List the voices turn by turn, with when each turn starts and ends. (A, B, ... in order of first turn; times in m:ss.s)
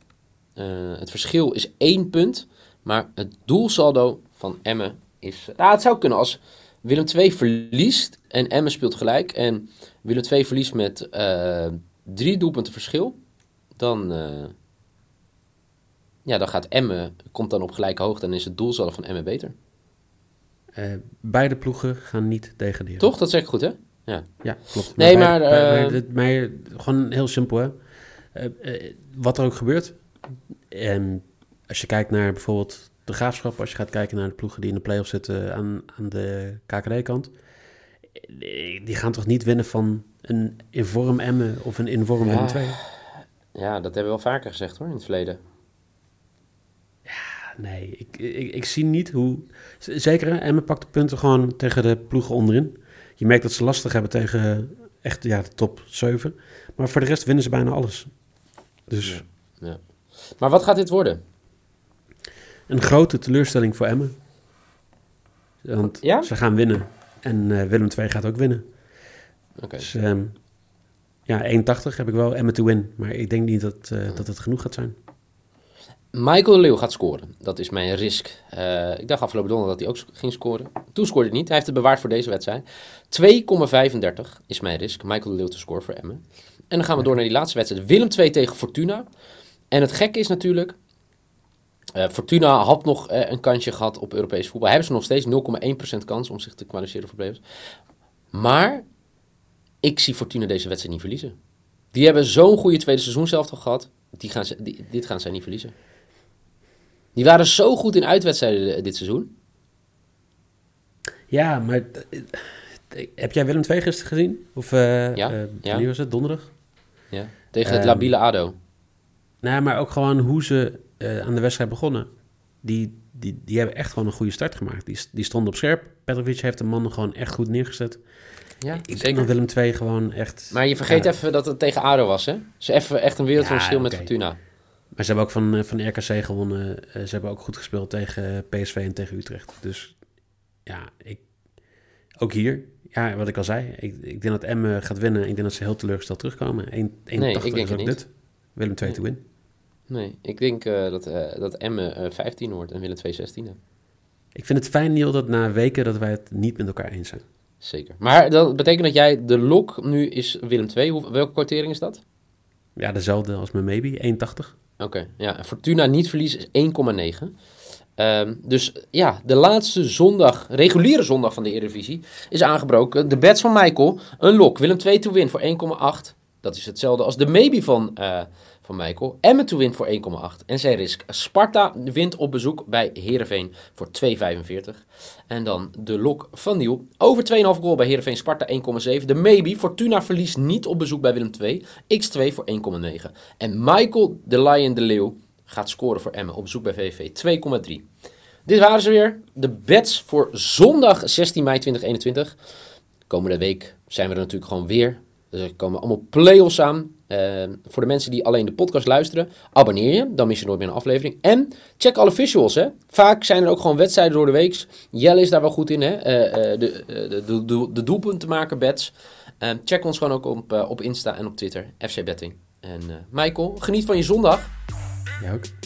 0:00.6-0:13.2 A
0:13.8-0:14.5 A
0:16.2-0:19.5 A
0:20.8-0:23.1 B
0:23.0-0:24.3 A
0:24.4-0:27.8 B
0:24.9-0:26.0 A
0:28.3-0:30.0 B
0:30.7-0:37.3 B
0:38.2-0:42.8 B
0:42.3-0:45.4 A
0:47.1-0:58.1 B
0:58.9-0:59.2 B
0:59.0-0:59.8 A
1:00.4-1:01.2 A
1:02.7-1:04.1 B
1:05.6-1:08.6 B
1:06.0-1:06.3 A
1:09.6-1:09.9 A
1:09.8-1:10.3 B
1:11.3-1:15.0 B
1:16.1-1:29.1 A
1:29.7-1:30.8 A
1:32.0-1:37.4 A
1:38.3-1:38.9 A
1:39.8-1:41.4 A
1:41.9-1:45.7 A
1:47.2-1:49.3 A
1:51.3-1:56.5 B
1:55.2-1:55.9 A
1:57.1-1:58.6 A
1:57.6-1:58.2 B
1:59.4-2:02.1 B
2:02.6-2:08.0 B
2:08.6-2:09.3 A
2:08.7-2:11.1 B
2:10.5-2:14.4 A
2:13.4-2:14.1 B
2:15.0-2:20.0 B
2:20.6-2:21.3 B
2:22.2-2:29.2 B
2:27.2-2:28.0 A
2:29.9-2:33.6 A
2:34.4-2:37.2 B
2:37.6-2:42.0 A
2:42.8-2:44.5 B
2:44.8-2:47.3 A
2:48.0-3:17.8 A
3:18.4-3:22.4 A
3:23.1-3:44.5 A
3:45.2-3:45.5 B